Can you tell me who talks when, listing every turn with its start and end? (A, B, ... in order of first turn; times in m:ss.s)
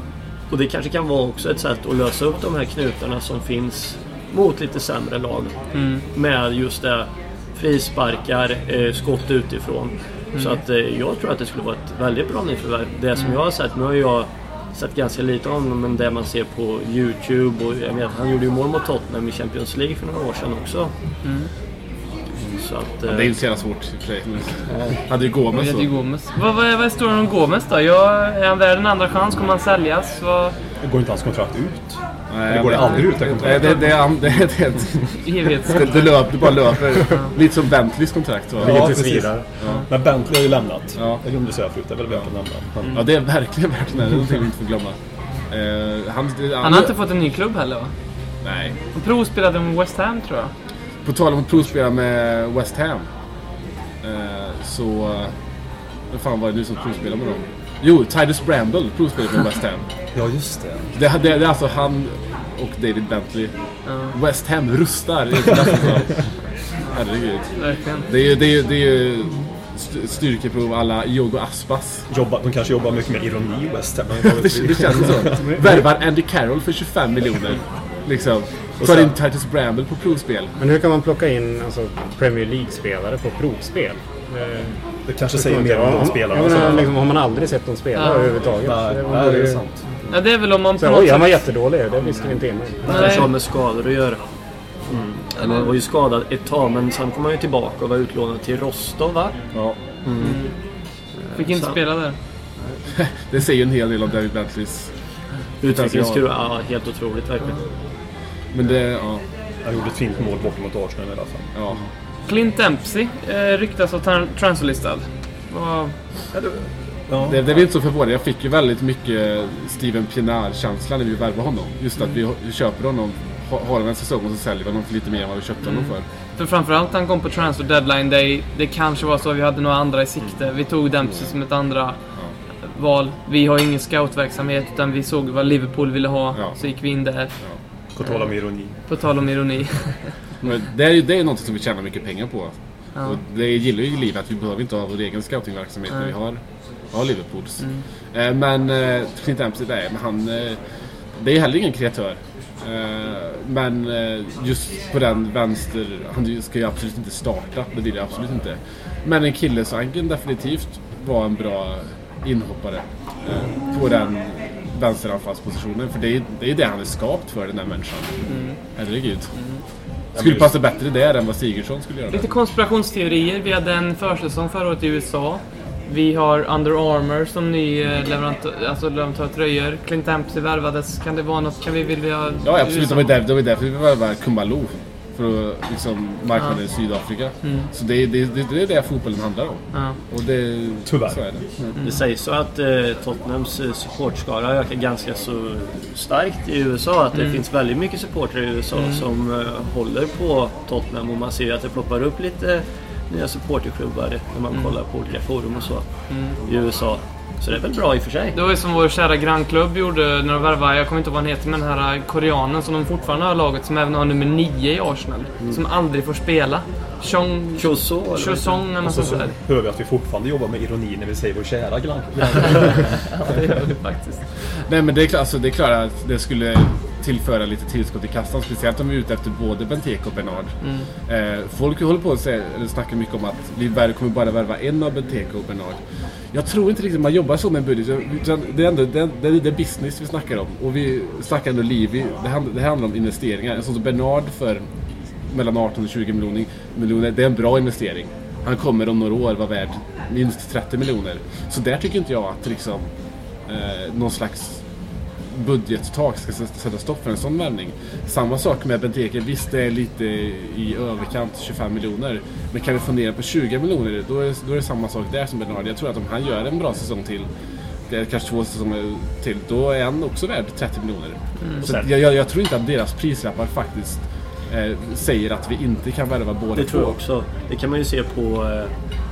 0:00.5-0:05.5 A
0:05.7-0:06.0 B
0:06.1-0:20.9 A
0:21.2-0:21.5 B
0:22.6-0:23.3 A
0:23.1-0:25.9 C
0:25.5-0:30.5 B
0:30.8-0:34.0 D
0:32.3-0:39.0 C
0:35.2-0:36.2 B
0:38.6-0:43.0 D
0:38.6-0:39.5 E
0:39.6-0:39.8 C
0:41.0-0:41.2 C
0:42.9-0:45.0 C
0:45.5-0:46.9 C
0:46.6-0:47.9 B
0:48.4-0:48.8 C
0:48.9-0:50.5 B
0:51.0-0:53.0 C
0:54.0-0:55.3 C
0:56.1-0:59.9 C
1:00.1-1:00.9 D
1:00.9-1:06.3 C
1:03.8-1:04.1 B
1:05.5-1:05.8 D
1:06.9-1:12.0 C
1:07.6-1:08.1 B
1:12.1-1:15.8 D
1:14.2-1:20.5 C
1:18.8-1:19.1 D
1:20.6-1:29.6 E
1:25.1-1:26.9 D
1:28.0-1:28.3 B
1:28.6-1:30.1 D
1:30.1-1:31.4 B
1:30.8-1:33.2 E
1:32.9-1:34.2 A
1:32.9-1:33.3 B
1:34.9-1:35.2 D
1:35.4-1:39.4 A
1:35.4-1:35.7 B
1:40.0-1:40.4 D
1:40.2-1:40.5 B
1:41.2-1:41.8 A
1:41.4-1:42.2 B
1:43.0-1:44.9 C
1:45.6-1:47.6 A
1:45.7-1:46.2 C
1:48.5-1:49.2 C
1:49.6-1:51.5 D
1:51.5-1:51.8 C
1:52.2-1:55.9 B
1:56.3-1:57.4 D
1:57.2-2:06.0 C
2:05.6-2:12.0 B
2:11.0-2:11.3 C
2:12.7-2:17.3 B
2:17.9-2:18.8 D
2:18.0-2:18.3 B
2:18.9-2:20.1 B
2:20.4-2:30.6 C
2:27.6-2:27.8 B
2:31.2-2:49.3 C
2:48.3-2:48.6 B
2:49.3-2:49.6 B
2:50.1-2:52.3 C
2:50.2-2:50.5 D
2:52.1-3:03.1 B
3:02.4-3:11.4 C
3:07.4-3:07.7 B
3:10.8-3:11.8 D
3:11.8-3:25.9 A
3:17.1-3:17.4 B
3:18.7-3:19.0 B
3:26.1-3:26.4 B
3:26.4-3:28.4 A
3:28.3-3:39.3 B
3:37.6-3:38.6 A
3:38.8-3:43.3 D
3:42.4-3:44.2 B
3:44.5-3:50.5 C
3:50.6-3:50.9 B
3:51.0-3:55.8 C
3:56.3-4:04.6 C
4:05.3-4:12.9 C
4:13.4-4:14.6 C
4:15.3-4:27.3 C
4:27.9-4:37.0 C
4:36.5-4:38.7 A